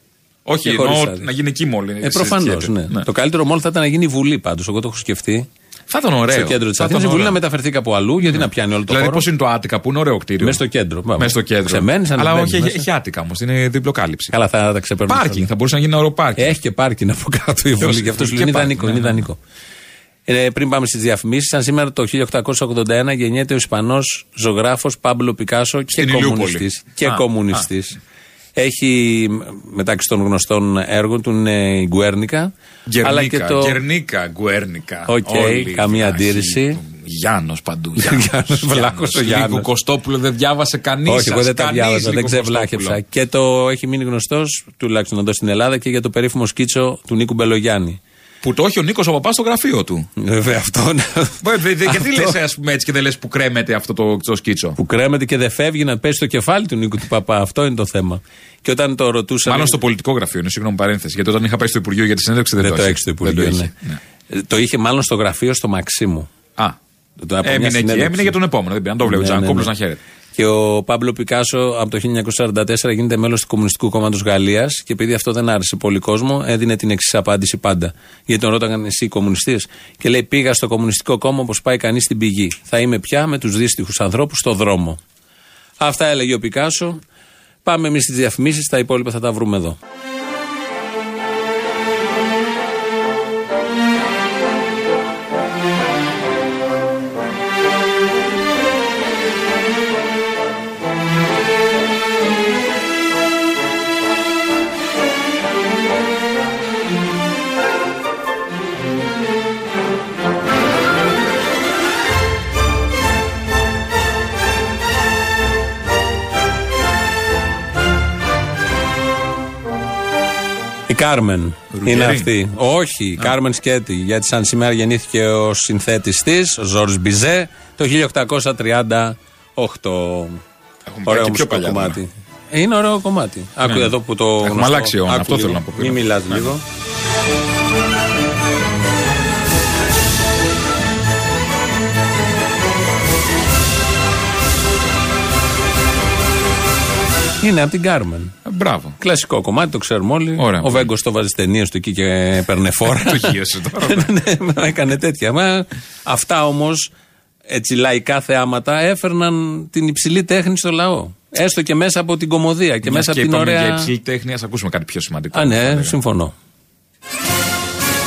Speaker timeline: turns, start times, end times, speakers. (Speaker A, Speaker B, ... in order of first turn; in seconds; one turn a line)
Speaker A: 0.5-3.0
Speaker B: 0.6-1.3
Speaker B: 2.0-5.5
Speaker A: 5.9-7.4
Speaker B: 6.3-9.2
Speaker A: 8.2-10.6
Speaker B: 10.4-12.9
Speaker A: 11.2-14.3
Speaker B: 14.3-15.4
Speaker A: 15.1-16.6
Speaker B: 16.4-19.4
Speaker A: 17.8-19.2
Speaker B: 20.3-28.0
Speaker A: 25.9-27.6
Speaker B: 28.6-32.5
Speaker A: 32.9-43.0
Speaker B: 33.0-33.8
Speaker B: 35.1-36.8
Speaker B: 38.0-39.6
Speaker B: 41.0-48.0
Speaker A: 48.4-50.1
Speaker B: 50.2-52.3
Speaker A: 51.4-54.8
Speaker B: 54.8-59.8
Speaker A: 59.5-64.0
Speaker B: 62.6-63.7
Speaker B: 64.3-66.3
Speaker B: 67.2-68.4
Speaker A: 67.4-70.0
Speaker B: 69.0-69.7
Speaker B: 70.3-85.0
Speaker B: 85.8-87.0
Speaker B: 87.6-89.8
Speaker B: 120.9-130.4
Speaker A: 121.7-122.3
Speaker A: 130.8-132.0
Speaker B: 131.1-136.6
Speaker A: 133.6-136.5
Speaker B: 147.4-148.3
Speaker A: 148.4-149.0
Speaker B: 149.0-156.9
Speaker A: 150.4-150.9
Speaker A: 152.8-154.1
Speaker B: 157.5-163.9
Speaker A: 162.8-165.9
Speaker B: 165.3-166.3